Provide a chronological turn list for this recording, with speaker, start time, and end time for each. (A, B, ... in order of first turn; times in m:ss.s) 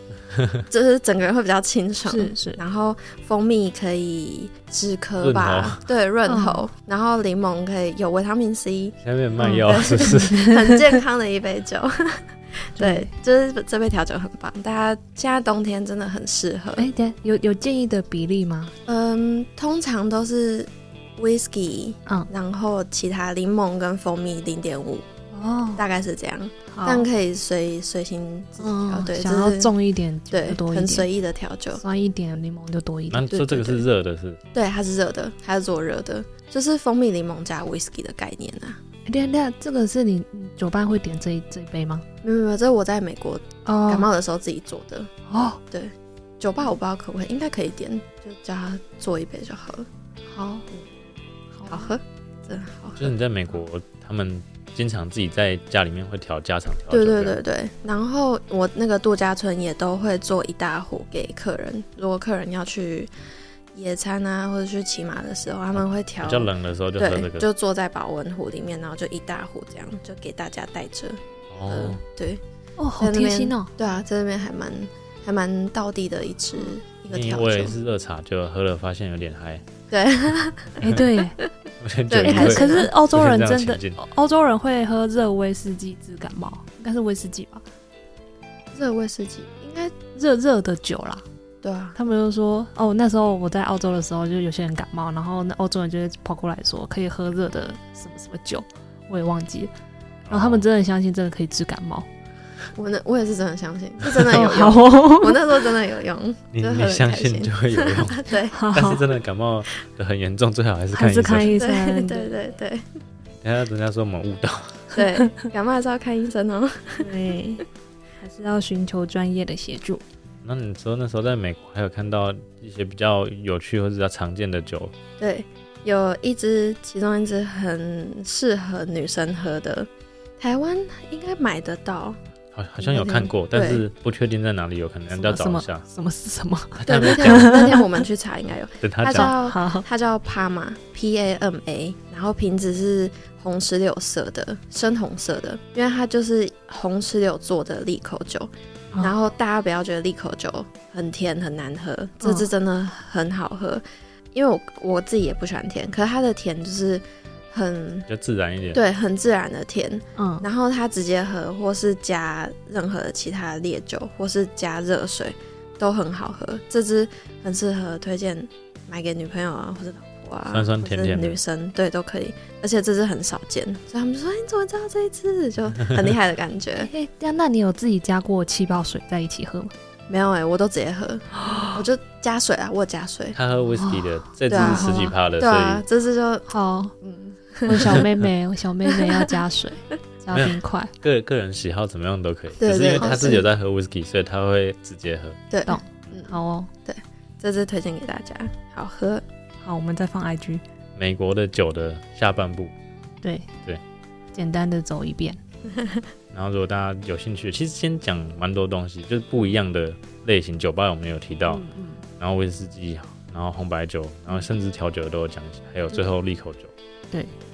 0:00.7-0:16.8 A
0:02.1-0:02.6 B
0:05.2-0:05.8 C
0:06.2-0:06.6 B
0:09.0-0:10.4 C
0:09.4-0:10.8 B
0:12.8-0:13.1 B
0:16.8-0:18.7 B
0:18.8-0:25.0 A
0:25.3-0:25.8 B
0:25.8-0:29.7 A
0:26.7-0:27.1 B
0:28.6-0:31.1 B
0:30.3-0:31.8 A
0:31.8-0:33.3 B
0:33.1-0:34.4 C
0:33.3-0:33.8 A
0:34.5-0:38.8 A
0:39.0-0:42.0 B
0:42.2-0:45.1 A
0:43.6-0:44.1 B
0:45.3-0:45.6 B
0:45.7-0:49.9 A
0:50.3-0:50.7 B
0:51.5-0:51.9 B
0:51.7-0:53.1 A
0:53.0-0:57.4 C
0:56.9-1:03.1 A
1:03.7-1:12.4 A
1:06.2-1:07.5 C
1:11.5-1:12.0 C
1:12.8-1:13.7 B
1:13.0-1:17.7 A
1:17.1-1:19.6 C
1:19.9-1:20.8 A
1:20.8-1:21.4 B
1:21.8-1:24.0 C
1:22.1-1:22.9 A
1:22.2-1:27.6 B
1:28.7-1:30.0 A
1:30.1-1:31.2 B
1:31.6-1:32.0 A
1:32.0-1:39.7 B
1:40.3-1:40.6 C
1:40.3-1:42.1 B
1:42.7-1:48.6 A
1:44.1-1:45.6 B
1:46.5-1:51.6 C
1:48.5-1:49.0 B
1:50.9-1:52.4 B
1:51.6-1:52.8 A
1:53.4-1:54.9 C
1:54.9-1:57.1 A
1:57.0-1:57.6 B
1:58.2-2:00.0 B
2:00.4-2:04.9 C
2:05.2-2:12.2 A
2:12.5-2:15.8 C
2:12.9-2:13.3 B
2:13.5-2:13.8 A
2:15.1-2:18.0 B
2:16.8-2:17.5 C
2:16.8-2:38.1 A
2:18.8-2:19.4 C
2:19.1-2:19.8 B
2:32.2-2:32.5 B
2:38.1-2:38.8 C
2:38.7-2:56.9 A
2:40.2-2:40.4 B
2:50.5-2:51.4 C
2:56.8-2:59.7 B
3:00.1-3:03.4 A
3:01.4-3:01.7 B
3:03.3-3:05.8 C
3:03.7-3:05.1 B
3:04.5-3:06.5 A
3:06.5-3:06.9 B
3:07.0-3:08.0 A
3:07.6-3:10.9 B
3:08.9-3:09.3 A
3:10.3-3:15.4 C
3:12.6-3:13.4 A
3:15.5-3:16.3 A
3:15.7-3:16.7 B
3:16.8-3:19.2 A
3:19.6-3:20.6 B
3:21.0-3:22.7 C
3:23.2-3:23.5 B
3:24.3-3:25.4 B
3:25.8-3:26.0 A
3:26.3-3:31.6 C
3:31.5-3:32.0 B
3:32.2-3:36.7 C